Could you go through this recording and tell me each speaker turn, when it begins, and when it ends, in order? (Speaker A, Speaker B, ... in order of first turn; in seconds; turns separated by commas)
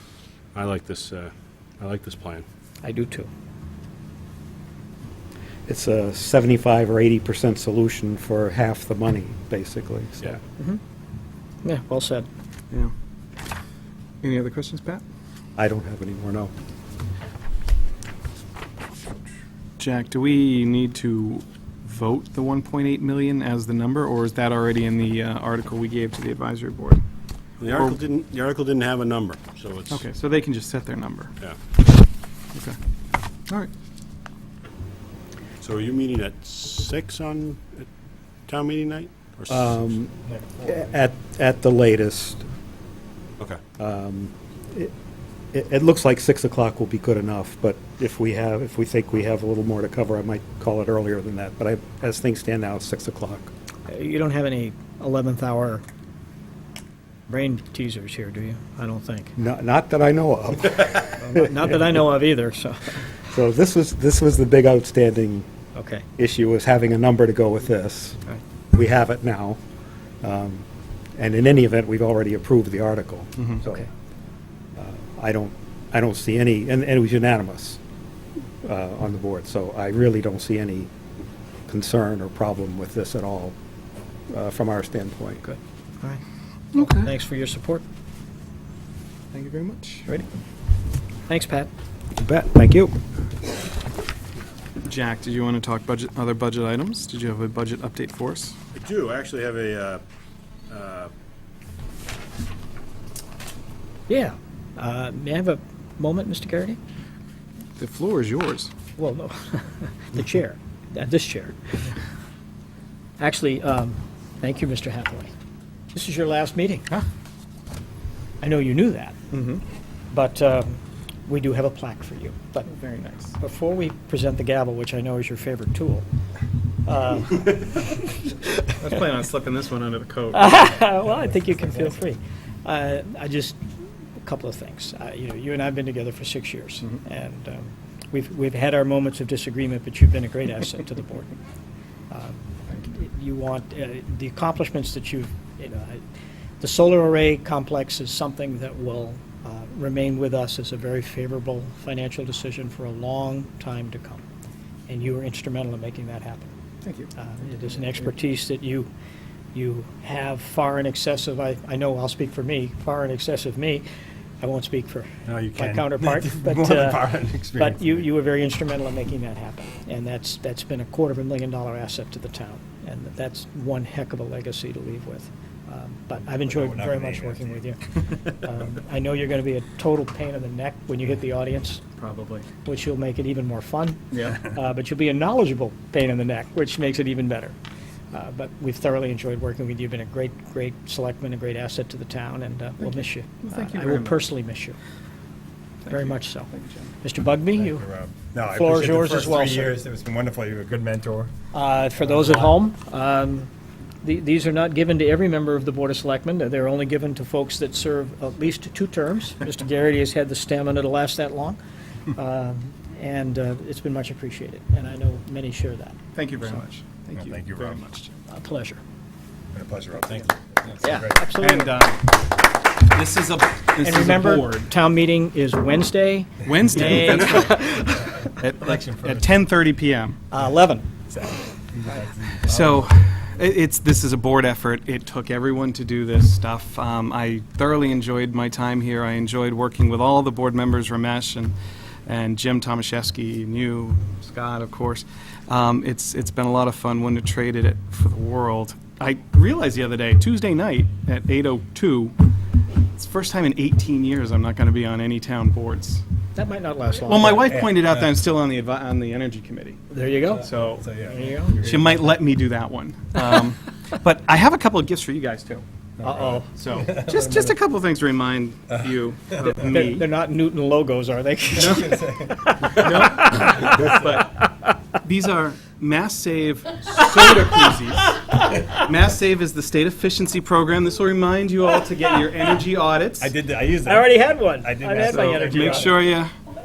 Speaker A: 0.6-2.5, Speaker B: 2.8-3.3, Speaker C: 5.7-10.4, Speaker B: 11.6-12.3, Speaker D: 14.2-15.0, Speaker C: 15.6-16.5, Speaker D: 19.8-27.1, Speaker A: 27.6-30.0, Speaker D: 27.6-28.0, Speaker D: 29.9-31.4, Speaker A: 35.6-37.9, Speaker A: 38.5-39.8, Speaker C: 39.5-40.1, Speaker E: 40.3-40.7, Speaker C: 40.6-42.5, Speaker C: 43.8-44.9, Speaker C: 45.5-53.5, Speaker B: 53.9-55.9, Speaker B: 57.3-59.3, Speaker C: 59.4-61.6, Speaker B: 61.2-63.0, Speaker C: 63.3-65.5, Speaker B: 65.8-66.0, Speaker C: 66.2-68.2, Speaker C: 68.7-69.6, Speaker C: 70.2-70.6, Speaker C: 71.2-73.9, Speaker C: 74.8-77.8, Speaker C: 78.6-80.9, Speaker C: 81.7-83.5, Speaker C: 84.3-85.4, Speaker B: 85.4-86.2, Speaker D: 86.7-87.1, Speaker B: 86.8-87.8, Speaker D: 89.3-90.1, Speaker B: 91.3-91.7, Speaker C: 92.2-93.0, Speaker D: 94.8-98.6, Speaker A: 98.7-100.0, Speaker A: 100.7-101.1, Speaker B: 104.1-106.8, Speaker D: 107.8-108.7, Speaker B: 109.0-111.9, Speaker B: 113.2-115.3, Speaker B: 115.9-116.9, Speaker B: 118.4-119.2, Speaker D: 119.3-119.6, Speaker B: 120.1-122.7, Speaker D: 122.7-123.3, Speaker B: 123.4-126.1, Speaker B: 126.8-128.3, Speaker D: 128.8-130.6, Speaker B: 130.3-133.6, Speaker B: 134.2-141.4, Speaker B: 142.1-146.0, Speaker B: 146.6-154.2, Speaker B: 154.9-156.5, Speaker D: 156.8-157.1, Speaker B: 157.2-158.9, Speaker B: 159.5-163.8, Speaker B: 164.4-181.9, Speaker E: 165.3-168.0, Speaker E: 176.4-177.6, Speaker D: 182.0-182.5, Speaker B: 182.6-187.6, Speaker D: 184.1-184.5, Speaker B: 188.1-194.8, Speaker D: 192.8-194.2, Speaker D: 195.8-196.9, Speaker B: 195.9-196.5, Speaker B: 197.0-197.8, Speaker E: 197.6-201.3, Speaker B: 198.5-199.8, Speaker B: 201.5-203.5, Speaker E: 202.1-202.5, Speaker B: 204.0-211.6, Speaker B: 212.1-216.6, Speaker D: 216.2-218.1, Speaker A: 217.2-217.8, Speaker B: 218.3-218.8, Speaker E: 219.6-221.2, Speaker A: 219.6-219.9, Speaker B: 220.8-221.8, Speaker D: 221.2-222.3, Speaker D: 222.8-224.6, Speaker B: 223.8-228.0, Speaker D: 226.4-227.9, Speaker D: 228.4-230.2, Speaker E: 228.6-229.3, Speaker B: 230.3-231.0, Speaker E: 231.7-232.9, Speaker D: 232.4-241.6, Speaker D: 242.1-252.2, Speaker D: 252.9-256.0, Speaker B: 256.4-257.6, Speaker D: 257.1-259.8, Speaker E: 257.3-258.1, Speaker B: 259.9-261.6, Speaker D: 260.4-260.9, Speaker E: 260.4-262.0, Speaker D: 261.5-270.1, Speaker B: 266.0-266.5, Speaker E: 266.7-267.5, Speaker B: 269.4-273.9, Speaker D: 271.6-272.0, Speaker E: 271.6-272.8, Speaker D: 272.7-283.3, Speaker E: 273.5-274.2, Speaker B: 277.0-278.3, Speaker E: 283.2-286.0, Speaker B: 283.9-286.0, Speaker D: 285.1-286.3